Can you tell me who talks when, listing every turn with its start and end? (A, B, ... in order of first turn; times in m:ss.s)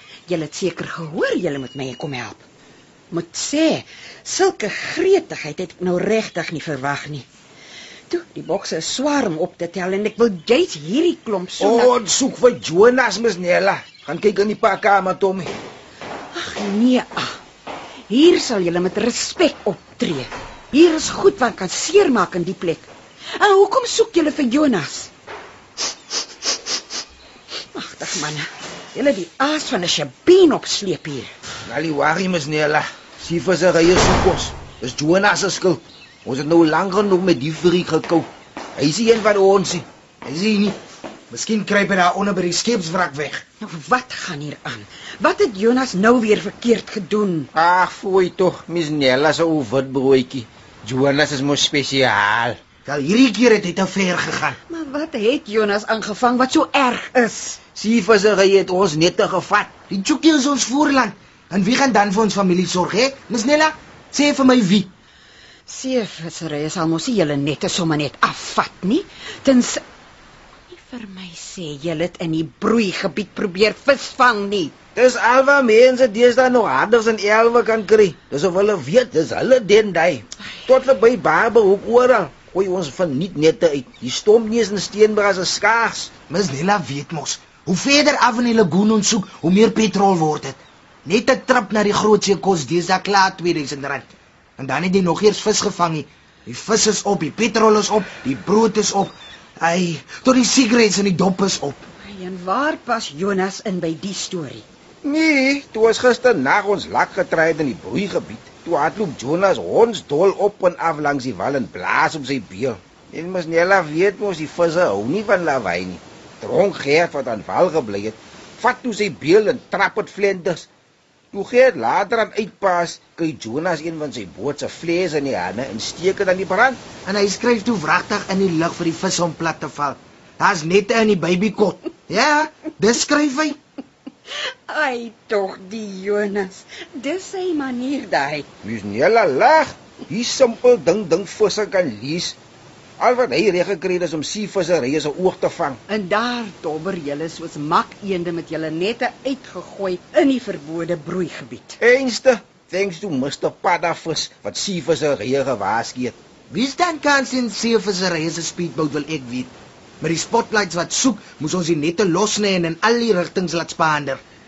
0:00.3-0:02.4 A
0:03.1-0:07.2 A
0:08.1-0:11.9 A
0:11.6-0:15.5 B
0:16.3-0:17.4 A
0:18.1-0:25.1 A
0:27.7-0:31.3 A
0:31.6-0:39.8 B
0:40.2-0:40.8 C
0:41.3-0:43.4 C
0:43.6-0:47.5 A
0:47.5-0:52.6 B
0:52.8-0:54.6 C
0:54.7-0:57.6 A
0:57.7-0:59.8 B
0:59.9-1:04.9 C
1:05.7-1:09.8 A
1:10.7-1:14.7 A
1:15.0-1:26.1 B
1:26.3-1:41.8 C
1:42.0-1:44.6 A
1:45.0-2:00.7 B
2:01.3-2:06.9 B
2:07.0-2:13.6 C
2:14.7-2:18.5 A
2:18.6-2:22.4 B
2:23.0-2:25.8 B
2:25.9-2:31.8 A
2:31.8-2:36.2 B
2:36.5-2:44.2 C